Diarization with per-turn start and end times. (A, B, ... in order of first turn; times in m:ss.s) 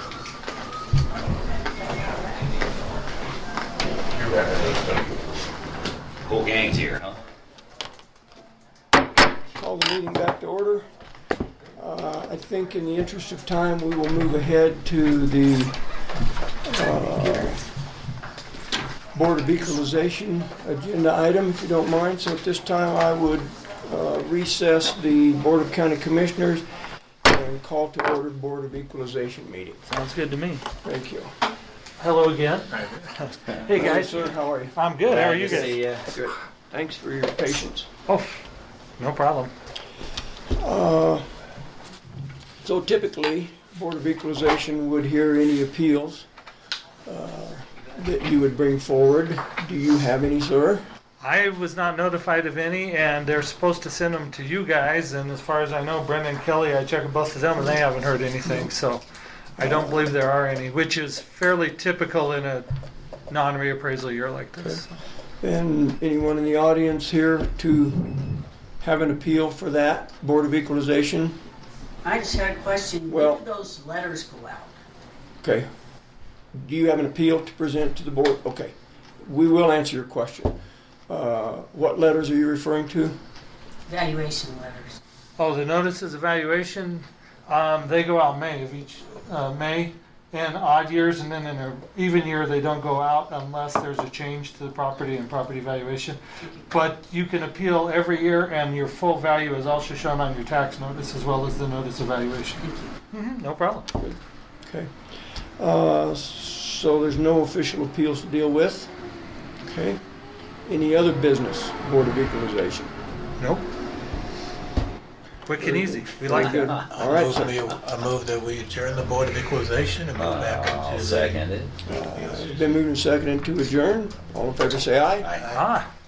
0:04.5-0:05.0 A
0:06.2-0:07.2 A
0:09.5-0:10.9 B
0:11.8-0:15.8 B
0:16.6-0:17.6 B
0:19.1-0:26.6 B
0:27.2-0:29.8 B
0:29.9-0:30.6 C
0:30.8-0:31.3 B
0:32.0-0:35.8 C
0:33.7-0:34.7 B
0:35.1-0:36.0 A
0:35.3-0:37.9 B
0:38.1-0:38.4 C
0:39.0-0:39.5 C
0:40.5-0:41.2 B
0:42.6-0:46.3 B
0:47.0-0:50.8 B
0:51.2-0:59.0 C
0:58.4-0:58.7 B
0:59.6-1:02.6 C
0:59.6-1:00.1 B
1:03.3-1:05.0 C
1:05.4-1:08.2 B
1:08.8-1:11.4 B
1:12.0-1:14.7 D
1:13.1-1:13.4 B
1:15.4-1:15.7 B
1:16.5-1:20.6 B
1:21.1-1:23.2 B
1:23.9-1:25.0 D
1:25.4-1:43.9 C
1:42.6-1:42.9 D
1:44.0-1:44.9 B
1:45.6-1:48.9 B
1:49.6-1:50.0 B
1:50.6-1:52.9 B
1:53.4-1:53.7 C
1:55.4-1:56.8 C
1:55.6-1:57.7 B
1:56.8-2:02.8 E
2:00.1-2:01.7 A
2:01.8-2:05.3 B
2:05.3-2:05.7 E
2:05.5-2:05.9 C